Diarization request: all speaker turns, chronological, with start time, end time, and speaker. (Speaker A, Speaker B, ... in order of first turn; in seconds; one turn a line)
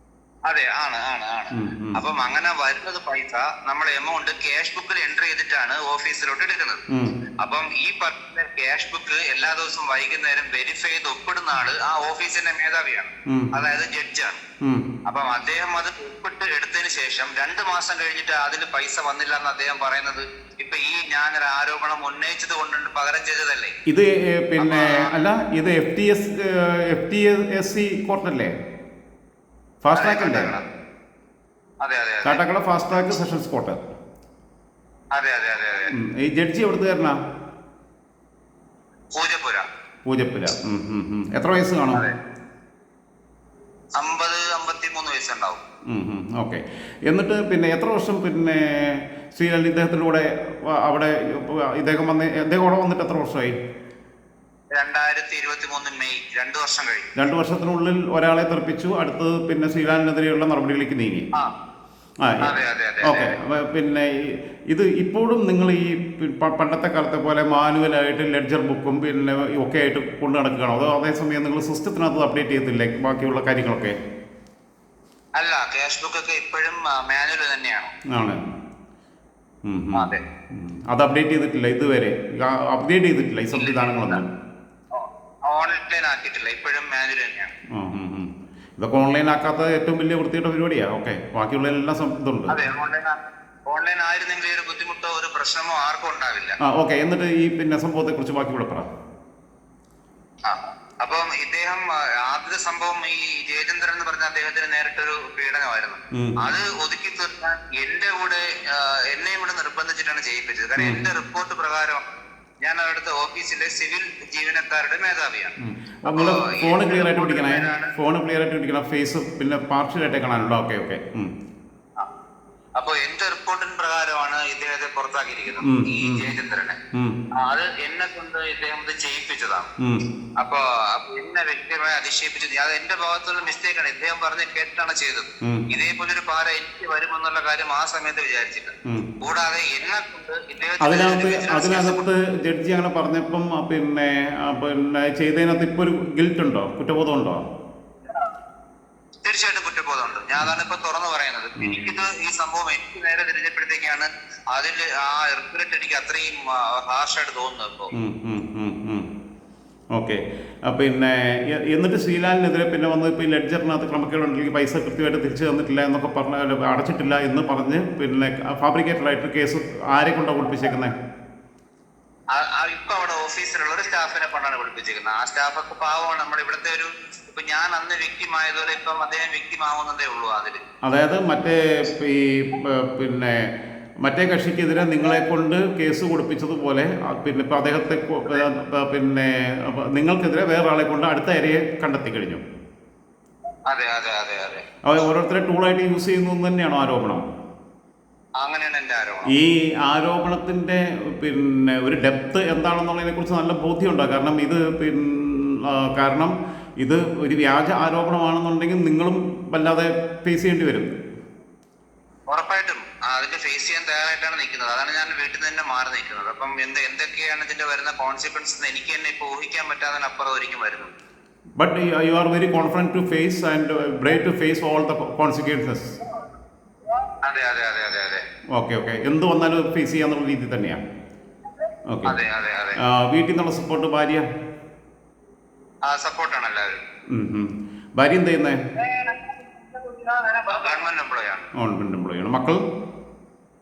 Speaker A: 0.5-6.8
Speaker B: 1.5-2.0
Speaker B: 6.9-7.2
Speaker A: 7.4-14.4
Speaker B: 13.3-13.5
Speaker B: 14.6-14.9
Speaker A: 15.1-23.8
Speaker B: 23.9-28.6
Speaker A: 24.6-25.1
Speaker B: 29.8-30.5
Speaker A: 29.9-30.6
Speaker A: 31.8-32.4
Speaker B: 32.2-33.8
Speaker A: 35.1-35.9
Speaker B: 35.9-37.2
Speaker A: 39.1-39.7
Speaker B: 40.1-42.0
Speaker A: 44.0-45.6
Speaker B: 45.9-53.5
Speaker A: 54.7-57.2
Speaker B: 57.2-61.3
Speaker B: 62.2-62.5
Speaker A: 62.4-63.3
Speaker B: 63.0-74.0
Speaker A: 75.4-77.9
Speaker B: 78.1-78.4
Speaker B: 79.7-84.3
Speaker A: 80.0-80.2
Speaker A: 83.5-84.2
Speaker A: 84.9-87.5
Speaker B: 87.7-92.5
Speaker A: 92.5-96.6
Speaker B: 96.6-98.9
Speaker A: 100.4-112.0
Speaker A: 112.6-115.5
Speaker B: 115.6-121.3
Speaker A: 116.1-117.9
Speaker A: 122.8-126.8
Speaker B: 125.6-126.3
Speaker B: 126.9-127.2
Speaker A: 127.4-129.7
Speaker B: 129.8-130.1
Speaker A: 130.4-142.0
Speaker B: 135.4-135.7
Speaker B: 140.8-147.4
Speaker A: 149.2-157.9
Speaker B: 151.6-151.9
Speaker B: 157.9-159.1
Speaker B: 159.9-170.9
Speaker A: 172.3-180.6
Speaker B: 180.8-183.5
Speaker B: 184.0-192.4
Speaker A: 193.7-194.6
Speaker B: 194.8-197.3
Speaker A: 198.4-199.3
Speaker B: 199.3-210.9
Speaker A: 212.3-220.9
Speaker B: 221.6-226.0
Speaker A: 227.2-228.2
Speaker B: 228.5-230.8
Speaker B: 231.9-232.2
Speaker A: 232.1-232.8
Speaker B: 232.8-234.3
Speaker A: 235.8-236.8
Speaker B: 237.1-238.6
Speaker A: 240.3-241.4
Speaker B: 241.6-242.6